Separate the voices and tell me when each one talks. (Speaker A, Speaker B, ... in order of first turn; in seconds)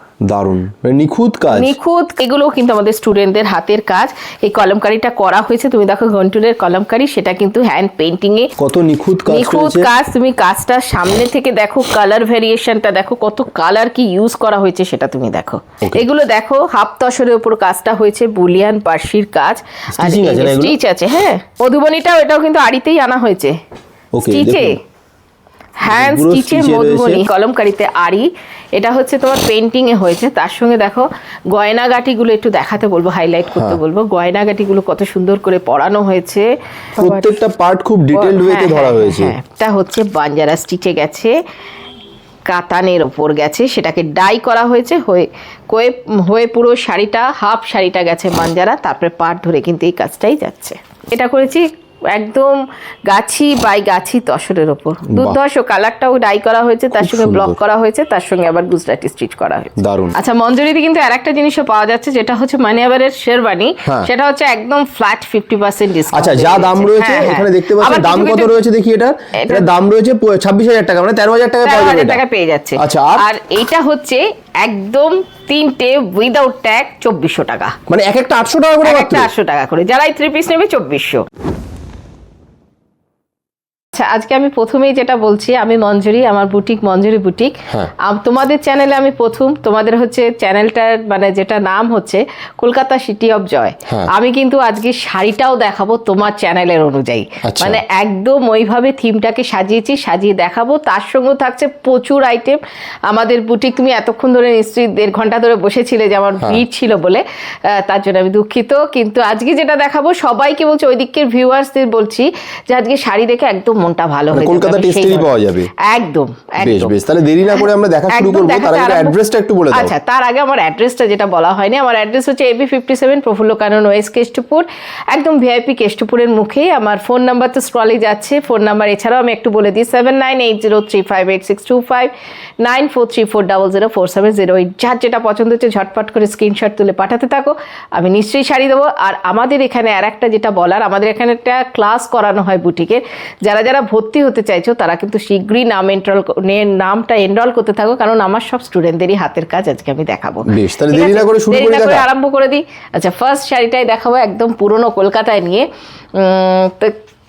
Speaker A: 0.2-1.7, 8.6-9.9, 15.8-16.1, 19.9-20.8, 24.1-24.7, 25.9-27.3, 33.5-33.8, 37.0-39.3, 55.1-55.4, 57.0-57.6, 59.8-60.1, 66.1-72.2, 72.8-73.2, 77.9-79.3, 97.4-97.8, 114.3-115.7, 116.6-119.9, 150.5-152.1
Speaker B: 1.5-8.5, 9.3-23.6, 24.2-24.8, 25.8-37.4, 38.1-41.4, 42.5-68.6, 69.3-69.7, 71.6-77.8, 78.8-81.2, 83.9-116.9, 117.5-119.2, 119.7-156.9